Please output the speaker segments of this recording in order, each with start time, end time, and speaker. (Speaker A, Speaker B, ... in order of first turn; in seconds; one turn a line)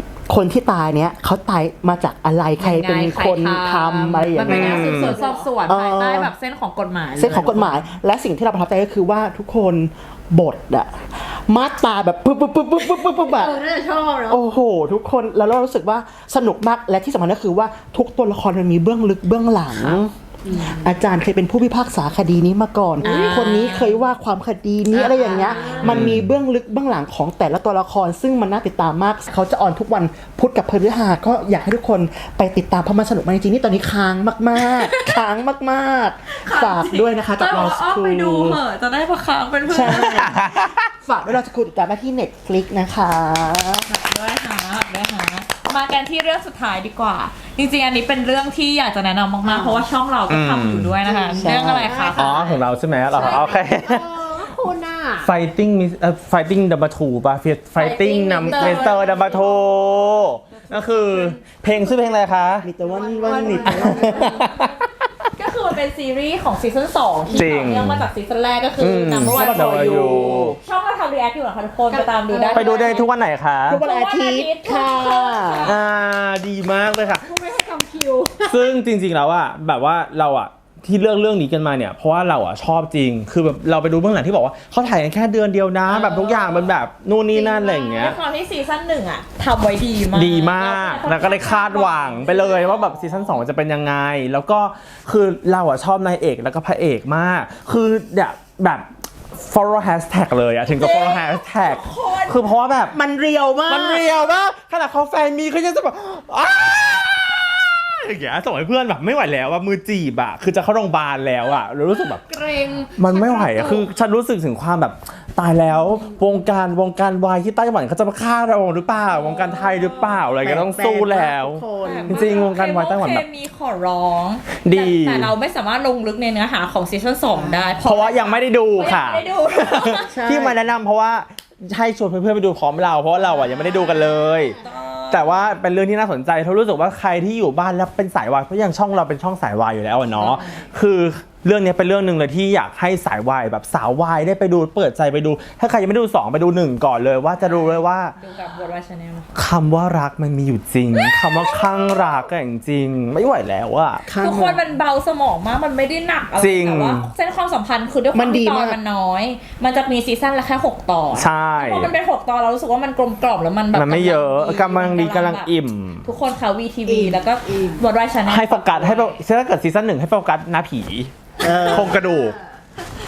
Speaker A: 0.3-5.1
Speaker B: 2.6-7.8
Speaker C: 4.5-5.5
Speaker D: 4.5-5.2
Speaker A: 5.7-6.3
Speaker A: 7.1-13.6
Speaker C: 12.8-14.4
Speaker A: 14.3-38.6
Speaker C: 20.4-20.9
Speaker B: 23.0-24.0
Speaker C: 23.1-23.3
Speaker C: 24.9-26.1
Speaker B: 25.1-25.9
Speaker D: 25.8-26.3
Speaker B: 34.6-35.1
Speaker B: 36.3-40.4
Speaker A: 39.7-43.9
Speaker D: 39.9-40.9
Speaker B: 43.9-52.5
Speaker C: 49.4-49.8
Speaker D: 50.3-51.0
Speaker C: 51.0-55.3
Speaker A: 51.3-51.9
Speaker D: 52.1-54.0
Speaker D: 55.2-62.7
Speaker B: 57.8-59.6
Speaker C: 58.4-60.1
Speaker A: 62.6-64.5
Speaker C: 62.8-64.5
Speaker B: 63.2-64.7
Speaker D: 63.6-64.8
Speaker B: 65.3-73.1
Speaker D: 67.3-68.1
Speaker D: 68.8-70.6
Speaker A: 69.3-70.6
Speaker C: 71.9-73.0
Speaker D: 72.5-73.8
Speaker A: 73.7-75.7
Speaker B: 73.8-75.8
Speaker D: 75.6-77.3
Speaker C: 77.2-78.7
Speaker D: 78.5-88.2
Speaker B: 85.9-86.7
Speaker B: 87.3-93.2
Speaker D: 90.1-103.0
Speaker B: 100.7-102.4
Speaker A: 102.9-104.1
Speaker D: 103.7-112.2
Speaker C: 112.2-113.8
Speaker D: 113.0-123.2
Speaker B: 113.1-113.6
Speaker B: 119.1-120.2
Speaker A: 120.4-122.3
Speaker B: 121.8-130.1
Speaker D: 124.6-125.3
Speaker A: 127.3-127.7
Speaker D: 127.8-134.6
Speaker A: 130.1-130.6
Speaker B: 133.2-135.5
Speaker D: 135.1-148.1
Speaker B: 140.2-140.6
Speaker B: 147.3-149.3
Speaker D: 149.3-154.0
Speaker B: 150.9-152.1
Speaker A: 154.0-154.6
Speaker B: 154.2-165.5
Speaker D: 156.4-157.1
Speaker A: 158.1-158.8
Speaker D: 161.1-161.9
Speaker D: 163.7-166.1
Speaker B: 166.0-169.2
Speaker C: 166.9-167.8
Speaker D: 168.3-172.4
Speaker A: 171.4-172.0